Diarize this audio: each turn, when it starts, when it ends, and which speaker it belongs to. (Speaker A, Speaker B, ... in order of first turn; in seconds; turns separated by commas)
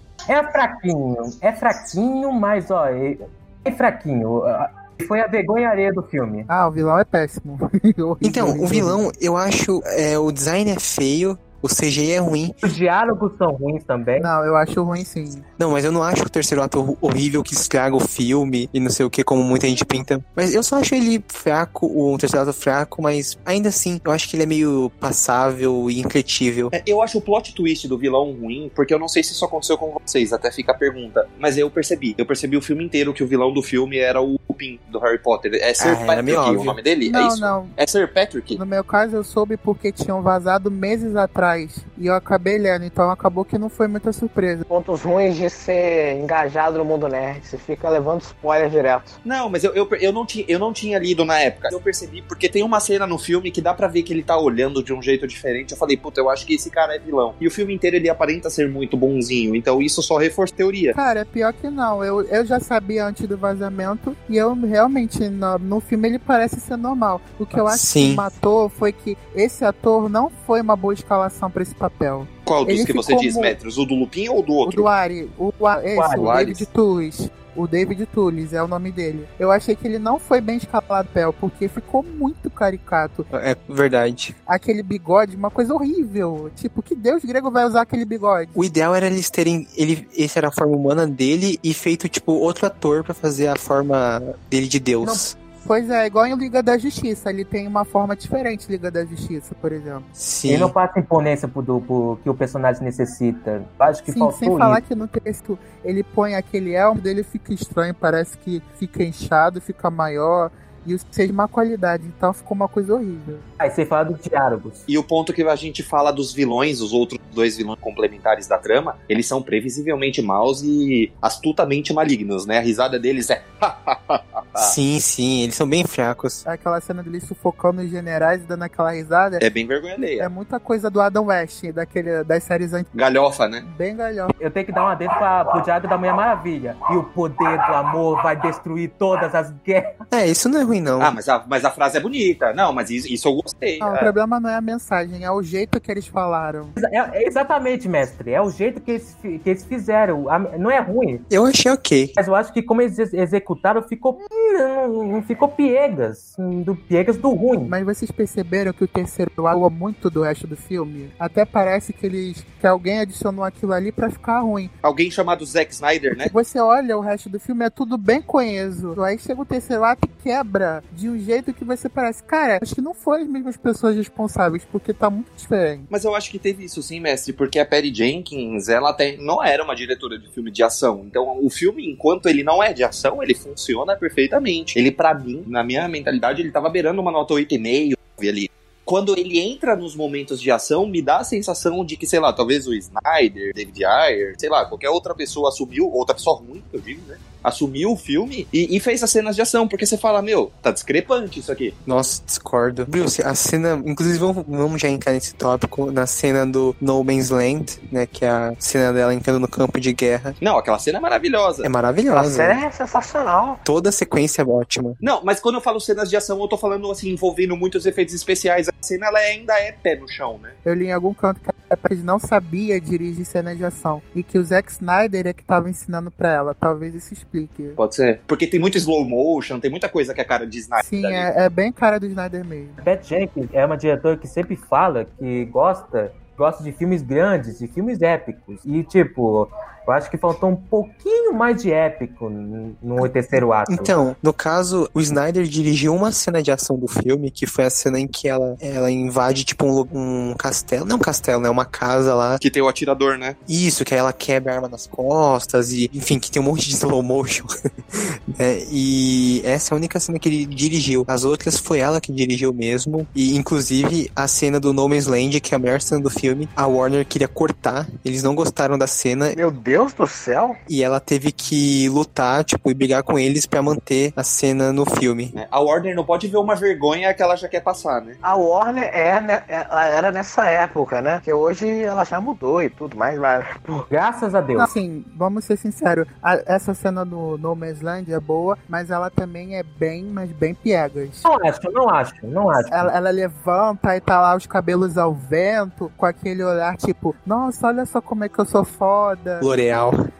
Speaker A: 0.3-6.5, Speaker B: 6.5-9.0, Speaker C: 8.2-12.5, Speaker A: 12.6-14.3, Speaker B: 14.2-15.4, Speaker C: 15.6-26.7, Speaker D: 26.7-38.6, Speaker C: 35.8-36.8, Speaker B: 37.0-37.7, Speaker B: 38.5-44.6, Speaker E: 44.7-49.1, Speaker D: 49.2-61.0, Speaker B: 60.9-73.5, Speaker C: 67.5-68.3, Speaker D: 72.5-74.9, Speaker B: 74.6-83.3, Speaker A: 75.9-76.4, Speaker D: 76.2-76.7, Speaker C: 83.3-84.3, Speaker B: 84.5-88.5, Speaker C: 88.5-95.3, Speaker A: 95.0-95.3, Speaker B: 95.6-100.1, Speaker C: 100.2-100.7, Speaker A: 100.5-104.8, Speaker B: 104.1-113.4, Speaker A: 113.6-114.8, Speaker D: 114.9-124.7, Speaker C: 124.5-126.4, Speaker B: 126.4-129.4, Speaker D: 129.4-130.3, Speaker B: 130.2-132.9, Speaker D: 132.9-133.6, Speaker B: 133.6-134.3, Speaker A: 134.4-139.9, Speaker C: 140.1-141.2, Speaker D: 141.0-144.1, Speaker B: 143.8-146.8, Speaker A: 146.8-151.2, Speaker C: 151.3-152.2, Speaker A: 152.2-157.7, Speaker B: 157.7-164.7, Speaker D: 164.8-166.3, Speaker B: 166.2-175.9, Speaker D: 175.9-201.7, Speaker C: 201.8-210.3, Speaker D: 210.4-211.7, Speaker C: 211.6-212.6, Speaker E: 212.1-213.6, Speaker C: 213.6-215.0, Speaker D: 215.0-220.6, Speaker B: 220.6-227.8, Speaker D: 227.8-231.3, Speaker B: 230.8-232.8, Speaker A: 232.8-243.9, Speaker C: 243.0-252.4, Speaker D: 252.4-253.4, Speaker C: 253.5-269.4, Speaker E: 269.3-270.6, Speaker C: 270.7-275.4, Speaker D: 275.3-278.2, Speaker E: 278.2-283.9, Speaker A: 283.9-284.7, Speaker B: 284.6-291.2, Speaker A: 291.2-292.9, Speaker B: 292.7-299.5, Speaker C: 299.4-300.0